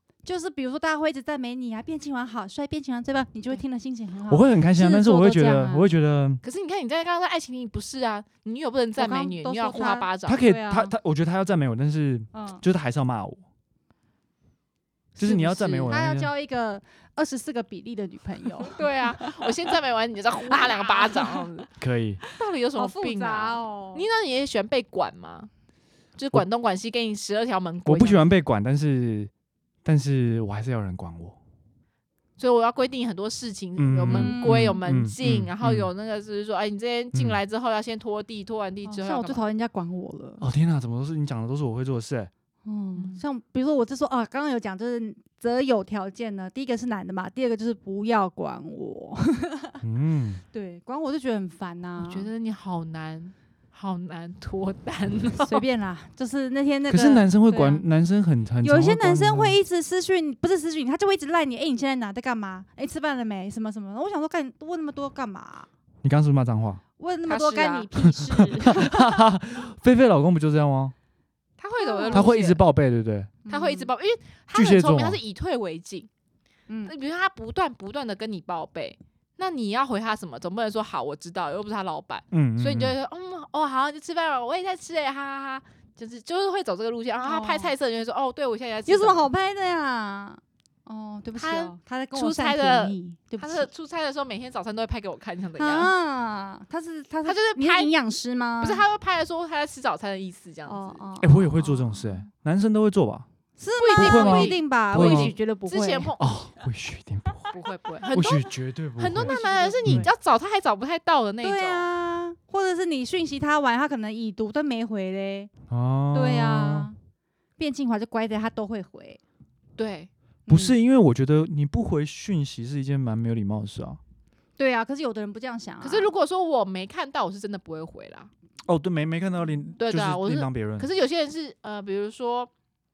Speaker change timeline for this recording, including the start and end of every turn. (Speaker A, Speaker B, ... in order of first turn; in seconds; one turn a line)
Speaker A: 0.2-5.9
Speaker B: 4.3-6.4
Speaker C: 6.4-10.4
Speaker A: 9.0-10.9
Speaker B: 10.2-13.4
Speaker A: 12.3-12.6
Speaker C: 15.2-16.0
Speaker B: 15.2-16.3
Speaker A: 15.9-19.5
Speaker C: 18.7-21.7
Speaker A: 20.5-21.5
Speaker B: 21.8-22.2
Speaker C: 22.3-25.5
Speaker A: 22.7-24.0
Speaker C: 26.2-28.2
Speaker B: 27.9-29.3
Speaker B: 29.8-31.4
Speaker C: 32.4-39.5
Speaker B: 33.8-35.9
Speaker A: 34.1-34.8
Speaker B: 37.1-37.4
Speaker A: 38.9-40.4
Speaker B: 40.4-42.3
Speaker A: 42.6-49.8
Speaker C: 42.9-43.2
Speaker B: 49.8-50.4
Speaker A: 50.5-52.3
Speaker C: 52.0-55.6
Speaker A: 55.4-57.8
Speaker B: 56.9-59.6
Speaker A: 58.6-65.7
Speaker B: 66.0-66.8
Speaker A: 67.0-69.2
Speaker C: 67.3-67.9
Speaker B: 68.2-70.9
Speaker C: 71.6-72.6
Speaker A: 71.8-72.3
Speaker B: 72.1-73.3
Speaker A: 73.5-73.9
Speaker C: 73.5-76.1
Speaker B: 74.5-75.2
Speaker A: 76.7-76.9
Speaker C: 76.9-89.2
Speaker B: 82.3-82.9
Speaker A: 87.2-87.7
Speaker A: 88.9-93.7
Speaker C: 91.4-95.9
Speaker A: 95.6-98.9
Speaker C: 97.2-97.9
Speaker C: 98.6-101.0
Speaker A: 100.7-102.2
Speaker B: 101.2-103.2
Speaker A: 103.6-106.1
Speaker C: 103.8-106.4
Speaker B: 103.9-105.3
Speaker B: 106.2-107.5
Speaker C: 107.5-111.9
Speaker B: 108.1-109.3
Speaker A: 109.2-110.1
Speaker A: 111.4-115.5
Speaker B: 115.7-116.9
Speaker A: 116.1-117.0
Speaker A: 117.6-119.2
Speaker C: 119.8-120.1
Speaker A: 120.5-120.8
Speaker B: 120.5-124.0
Speaker A: 124.6-126.1
Speaker C: 125.8-128.3
Speaker B: 128.7-130.9
Speaker C: 129.8-132.5